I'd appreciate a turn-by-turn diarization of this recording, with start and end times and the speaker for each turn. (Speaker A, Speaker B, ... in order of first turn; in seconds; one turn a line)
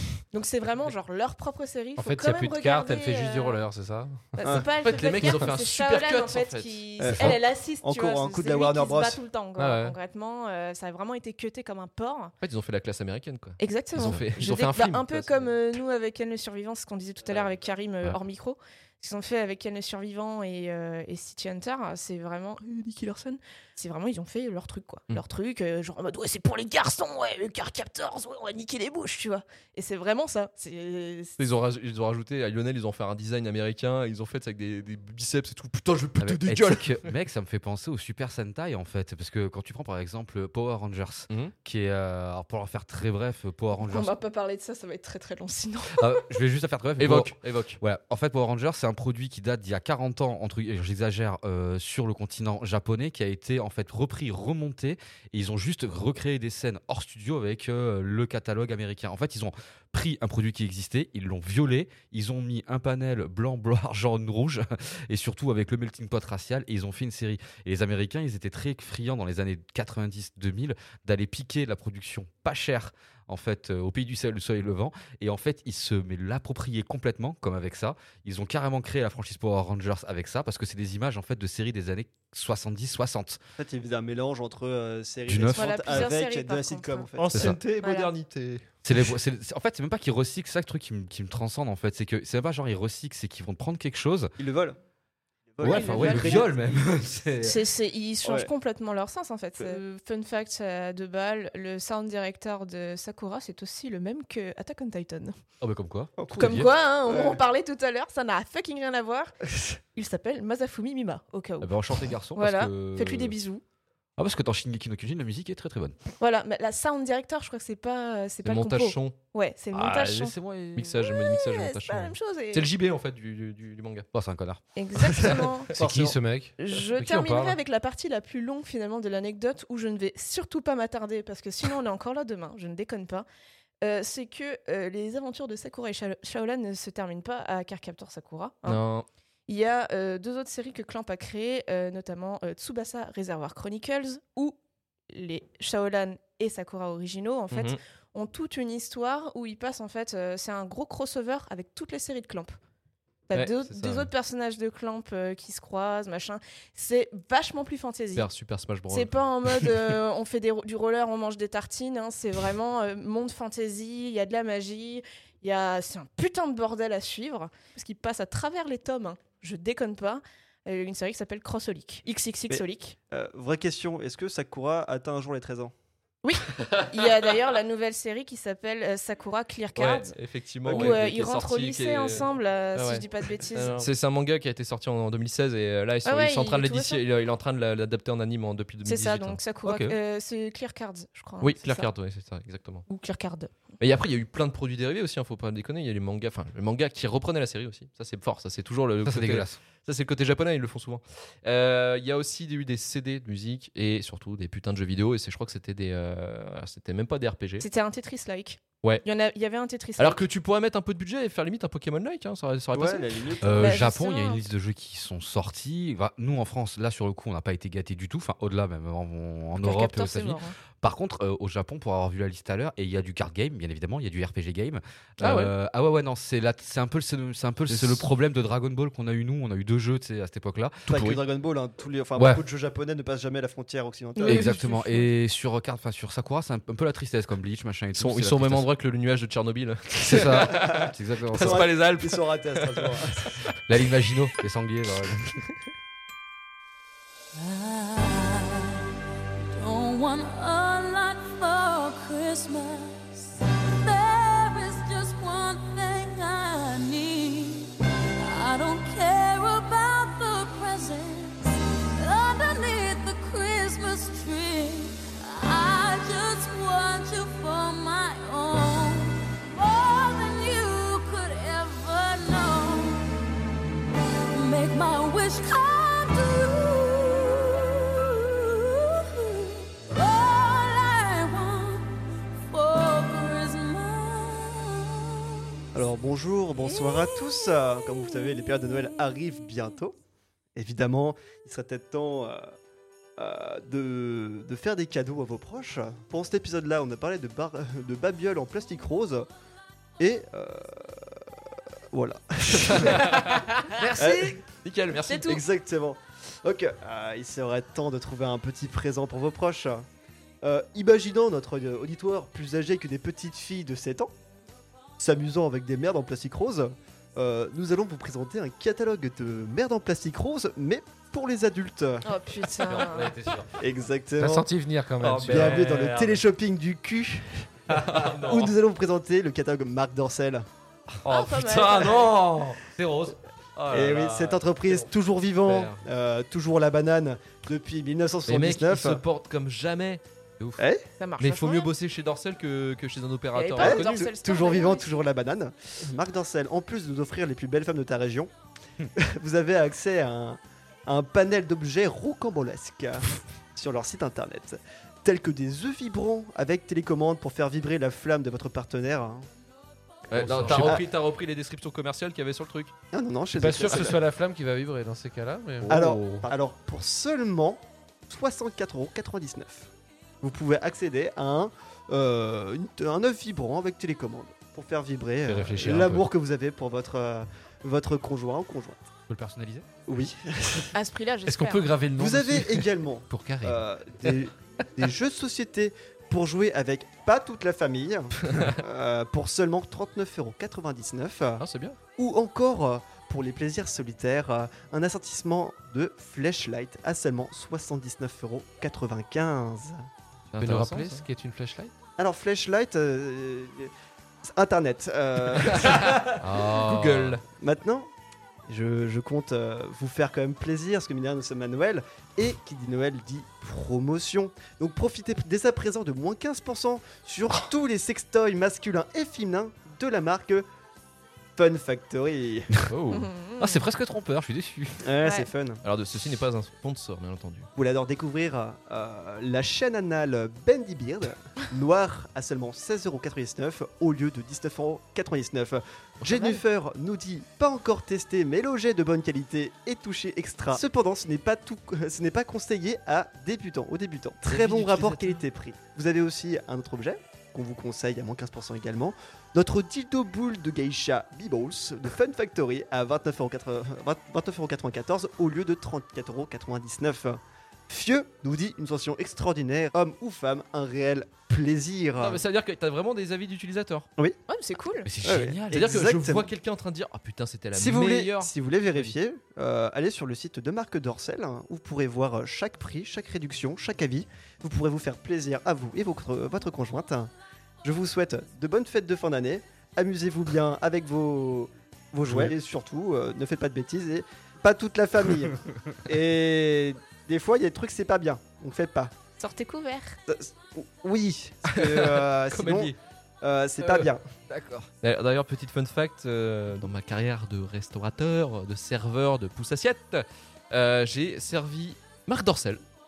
Speaker A: 0.3-3.6
Speaker B: 2.0-4.3
Speaker A: 4.3-12.3
Speaker C: 4.8-6.8
Speaker D: 7.0-9.2
Speaker B: 9.6-10.0
Speaker C: 12.4-15.5
Speaker A: 13.6-31.4
Speaker C: 31.4-37.1
Speaker E: 36.2-44.2
Speaker C: 41.3-41.5
Speaker A: 43.8-46.2
Speaker E: 46.0-83.4
Speaker C: 47.0-47.8
Speaker D: 83.6-87.5
Speaker E: 85.3-86.1
Speaker A: 85.5-88.1
Speaker C: 87.2-88.7
Speaker E: 87.3-87.6
Speaker E: 88.8-94.3
Speaker D: 94.4-94.8
Speaker D: 95.5-96.8
Speaker E: 95.6-97.6
Speaker A: 95.6-96.5
Speaker A: 97.4-105.4
Speaker D: 98.2-98.5
Speaker E: 105.6-106.7
Speaker D: 106.2-107.4
Speaker A: 106.3-109.3
Speaker A: 109.9-113.6
Speaker E: 111.6-113.4
Speaker E: 114.2-116.0
Speaker A: 116.2-120.4
Speaker C: 118.4-119.2
Speaker E: 119.7-120.9
Speaker C: 120.8-124.1
Speaker A: 121.0-122.7
Speaker E: 124.1-125.4
Speaker A: 124.8-126.0
Speaker C: 125.2-125.5
Speaker B: 125.8-127.6
Speaker A: 126.6-133.3
Speaker A: 133.8-138.8
Speaker C: 138.7-139.1
Speaker A: 139.5-144.6
Speaker A: 145.1-152.6
Speaker C: 147.5-147.8
Speaker A: 153.3-158.3
Speaker C: 153.3-154.1
Speaker C: 158.2-159.7
Speaker A: 158.9-173.0
Speaker D: 172.5-175.7
Speaker A: 176.2-180.1
Speaker C: 176.6-177.0
Speaker C: 179.8-189.4
Speaker D: 180.7-181.0
Speaker A: 180.7-183.8
Speaker A: 186.1-187.0
Speaker A: 188.8-191.9
Speaker E: 189.7-189.9
Speaker C: 191.4-192.9
Speaker A: 192.9-193.5
Speaker C: 193.8-207.7
Speaker E: 199.1-199.6
Speaker A: 207.6-210.2
Speaker C: 210.0-213.3
Speaker D: 212.7-213.8
Speaker E: 213.4-231.2
Speaker A: 213.6-214.4
Speaker A: 219.6-220.6
Speaker C: 225.2-225.5
Speaker C: 227.7-228.1
Speaker D: 230.9-234.5
Speaker A: 234.2-235.1
Speaker E: 234.2-238.7
Speaker C: 237.9-243.4
Speaker E: 240.0-241.7
Speaker D: 240.3-243.4
Speaker E: 243.7-245.4
Speaker F: 247.3-248.8
Speaker F: 249.6-273.2
Speaker F: 274.3-282.0
Speaker F: 282.5-285.4
Speaker D: 285.7-290.0
Speaker F: 286.6-289.0
Speaker D: 290.6-292.5
Speaker D: 293.2-299.3
Speaker D: 300.0-301.1
Speaker D: 301.9-303.3
Speaker C: 302.6-305.4
Speaker D: 304.0-304.4
Speaker A: 305.1-305.4
Speaker D: 305.1-309.9
Speaker D: 310.4-314.1
Speaker D: 315.0-322.1
Speaker A: 322.0-323.3
Speaker E: 322.6-323.5
Speaker D: 323.5-324.5
Speaker B: 324.2-325.6
Speaker C: 325.0-326.1
Speaker E: 325.1-326.2
Speaker D: 325.2-330.5
Speaker C: 327.7-328.5
Speaker E: 327.7-328.2
Speaker E: 330.9-333.2
Speaker A: 331.0-332.1
Speaker C: 331.1-332.4
Speaker C: 333.6-334.5
Speaker D: 333.7-339.0
Speaker E: 335.5-335.8
Speaker C: 338.3-340.0
Speaker D: 340.6-340.9
Speaker A: 341.0-341.7
Speaker C: 341.2-344.0
Speaker A: 343.4-344.9
Speaker D: 343.6-348.3
Speaker D: 348.9-359.3
Speaker C: 360.1-362.7
Speaker E: 360.1-360.7
Speaker D: 360.4-360.8
Speaker D: 362.9-364.0
Speaker B: 363.3-366.3
Speaker D: 365.7-369.7
Speaker D: 370.2-378.8
Speaker B: 375.3-376.1
Speaker E: 379.1-379.7
Speaker D: 379.9-380.7
Speaker A: 380.7-381.7
Speaker B: 381.3-383.6
Speaker D: 382.0-391.4
Speaker C: 391.4-391.8
Speaker D: 392.0-399.9
Speaker C: 400.3-401.0
Speaker B: 400.4-401.7
Speaker D: 402.0-403.7
Speaker D: 404.2-406.2
Speaker C: 405.4-407.2
Speaker E: 406.5-407.2
Speaker D: 407.4-407.9
Speaker D: 408.5-420.5
Speaker D: 421.4-422.6
Speaker E: 422.6-424.9
Speaker C: 422.7-423.1
Speaker A: 422.9-423.6
Speaker D: 424.8-425.6
Speaker A: 425.0-425.3
Speaker C: 425.6-427.5
Speaker D: 427.6-462.2
Speaker C: 444.2-445.2
Speaker C: 462.0-463.9
Speaker A: 464.3-464.9
Speaker E: 464.9-465.7
Speaker D: 465.0-466.3
Speaker C: 465.5-469.0
Speaker D: 467.5-477.1
Speaker D: 477.6-488.9
Speaker A: 489.2-490.0
Speaker D: 490.1-494.0
Speaker C: 491.5-492.8
Speaker C: 493.6-493.9
Speaker E: 494.3-494.7
Speaker C: 494.8-502.6